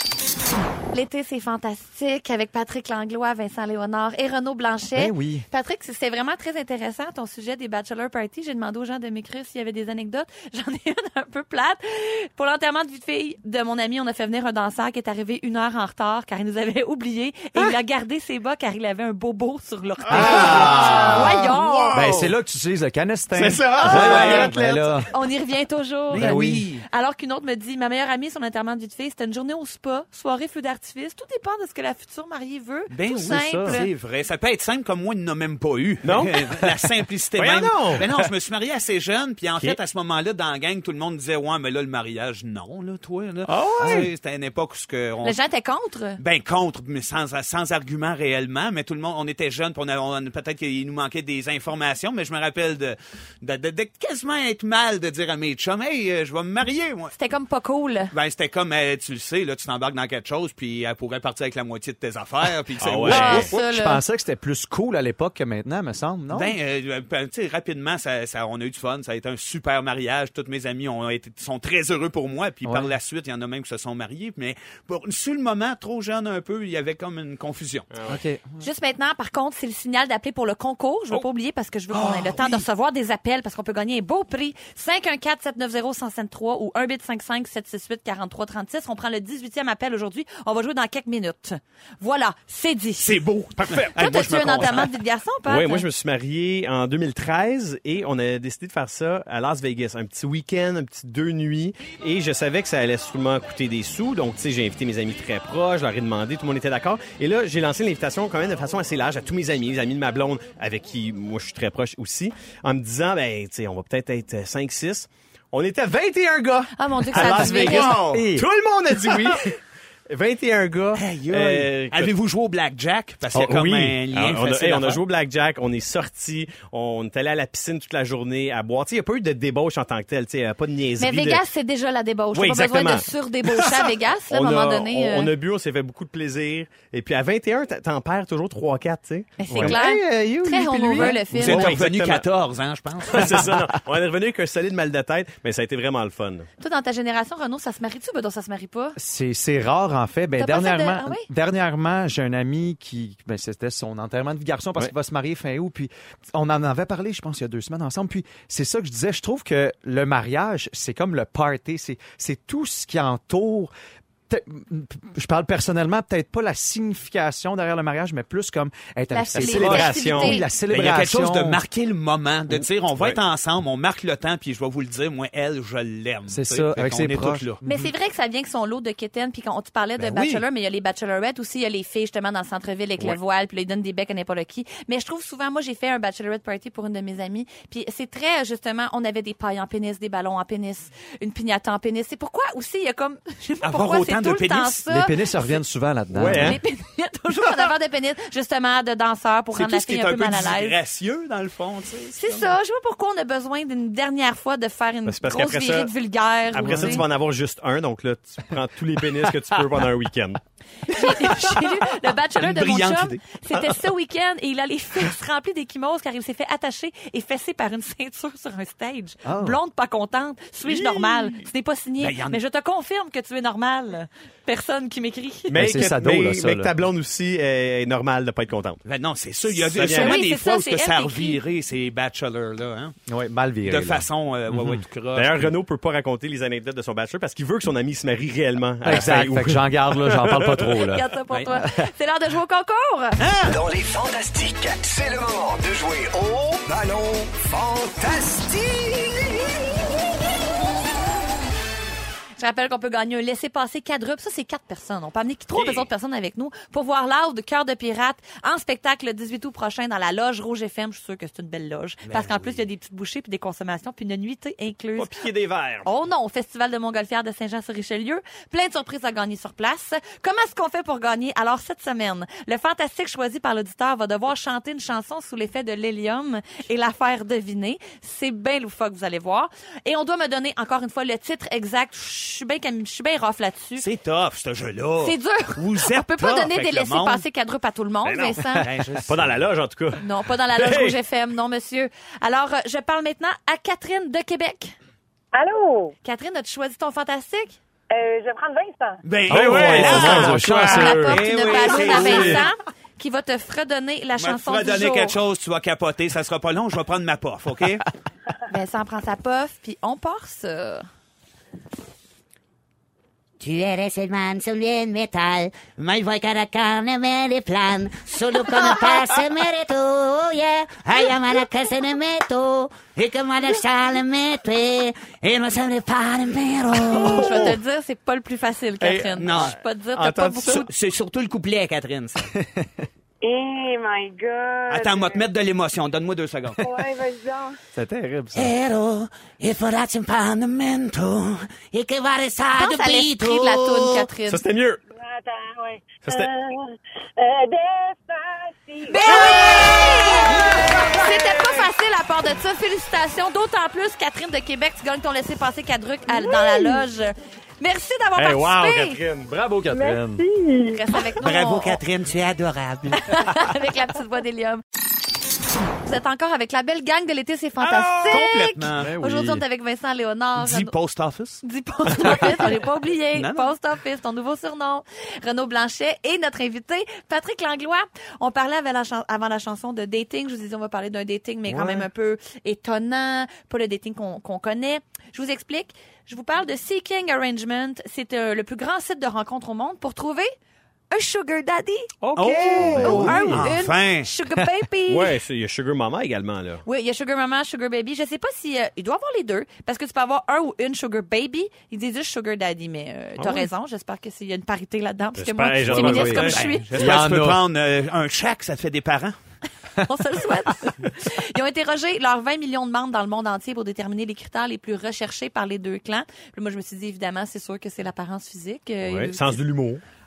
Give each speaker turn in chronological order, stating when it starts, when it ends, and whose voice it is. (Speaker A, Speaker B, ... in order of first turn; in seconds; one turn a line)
Speaker A: 0.9-22.0
Speaker B: 5.0-5.5
Speaker C: 20.1-22.3
Speaker B: 20.1-25.1
Speaker C: 23.3-25.1
Speaker D: 23.9-24.5
Speaker A: 23.9-24.4
Speaker A: 25.1-33.9
Speaker D: 26.1-26.8
Speaker B: 26.1-26.7
Speaker D: 32.9-45.4
Speaker B: 33.2-33.8
Speaker C: 36.0-36.5
Speaker C: 37.4-38.1
Speaker C: 43.5-44.1
Speaker B: 43.8-44.1
Speaker A: 45.2-46.2
Speaker D: 46.2-57.1
Speaker A: 57.1-58.1
Speaker D: 58.1-63.5
Speaker C: 62.8-63.5
Speaker B: 63.0-66.5
Speaker A: 63.1-64.0
Speaker D: 66.3-77.9
Speaker B: 72.6-72.9
Speaker C: 77.9-78.2
Speaker B: 78.1-78.4
Speaker A: 78.6-93.2
Speaker D: 81.9-82.6
Speaker D: 93.0-94.9
Speaker C: 93.6-93.9
Speaker A: 93.7-95.9
Speaker C: 95.5-119.5
Speaker A: 116.8-118.0
Speaker B: 117.1-118.5
Speaker C: 120.1-122.1
Speaker D: 121.0-125.0
Speaker C: 123.3-131.4
Speaker A: 131.0-135.3
Speaker C: 132.3-142.2
Speaker A: 139.4-141.7
Speaker B: 139.5-139.8
Speaker D: 141.3-143.5
Speaker C: 143.1-146.5
Speaker A: 146.6-149.0
Speaker B: 149.0-163.7
Speaker A: 150.4-151.3
Speaker B: 164.3-171.6
Speaker A: 169.1-170.4
Speaker C: 169.3-170.4
Speaker D: 170.7-177.6
Speaker B: 176.3-177.9
Speaker A: 177.6-195.6
Speaker D: 180.0-180.4
Speaker D: 193.6-194.8
Speaker B: 194.9-196.6
Speaker C: 196.1-196.6
Speaker A: 196.2-200.8
Speaker D: 199.5-202.5
Speaker A: 202.1-207.0
Speaker C: 205.1-205.9
Speaker C: 206.5-211.5
Speaker A: 210.9-225.7
Speaker D: 212.4-213.2
Speaker B: 219.2-219.6
Speaker C: 220.6-221.4
Speaker D: 222.0-222.4
Speaker C: 225.5-228.8
Speaker B: 225.6-226.7
Speaker D: 228.9-232.9
Speaker C: 229.6-230.2
Speaker A: 229.8-231.4
Speaker B: 233.1-234.8
Speaker D: 233.6-235.5
Speaker C: 235.1-240.8
Speaker B: 238.8-241.0
Speaker A: 240.8-243.2
Speaker D: 243.2-243.6
Speaker E: 243.4-249.6
Speaker A: 252.4-265.1
Speaker C: 255.5-255.9
Speaker D: 262.1-262.6
Speaker C: 264.9-265.9
Speaker A: 265.8-283.9
Speaker D: 283.8-287.2
Speaker A: 285.0-288.7
Speaker D: 288.1-289.3
Speaker C: 289.1-291.0
Speaker A: 290.0-294.7
Speaker F: 295.3-295.9
Speaker A: 296.0-297.6
Speaker F: 297.9-299.0
Speaker D: 299.0-302.5
Speaker B: 299.3-301.2
Speaker C: 299.3-302.4
Speaker A: 300.5-305.1
Speaker D: 304.2-307.9
Speaker A: 308.5-310.8
Speaker G: 313.4-327.4
Speaker A: 326.9-330.7
Speaker C: 327.2-327.5
Speaker C: 328.8-330.6
Speaker D: 329.2-329.6
Speaker D: 330.4-332.3
Speaker B: 332.4-332.7
Speaker F: 333.2-335.2
Speaker D: 334.7-336.6
Speaker F: 336.6-337.6
Speaker B: 337.7-338.5
Speaker G: 338.3-344.1
Speaker A: 342.5-344.4
Speaker C: 344.3-344.8
Speaker F: 344.9-349.6
Speaker A: 348.9-359.0
Speaker G: 349.0-350.4
Speaker C: 358.1-359.7
Speaker B: 359.3-360.2
Speaker F: 359.7-360.9
Speaker A: 360.7-361.8
Speaker G: 361.2-363.2
Speaker D: 361.2-361.8
Speaker A: 363.0-364.6
Speaker A: 365.8-370.7
Speaker D: 367.6-368.9
Speaker B: 368.7-369.4
Speaker D: 370.4-372.4
Speaker A: 371.4-390.3
Speaker D: 373.1-373.5
Speaker B: 381.5-381.8
Speaker A: 390.9-391.9
Speaker C: 392.0-393.5
Speaker D: 392.1-394.1
Speaker B: 392.1-393.4
Speaker A: 392.6-395.2
Speaker C: 394.9-396.6
Speaker A: 396.6-406.7
Speaker C: 403.2-403.5
Speaker C: 405.1-406.4
Speaker B: 405.6-407.4
Speaker D: 406.1-409.1
Speaker A: 409.8-419.4
Speaker C: 418.8-419.8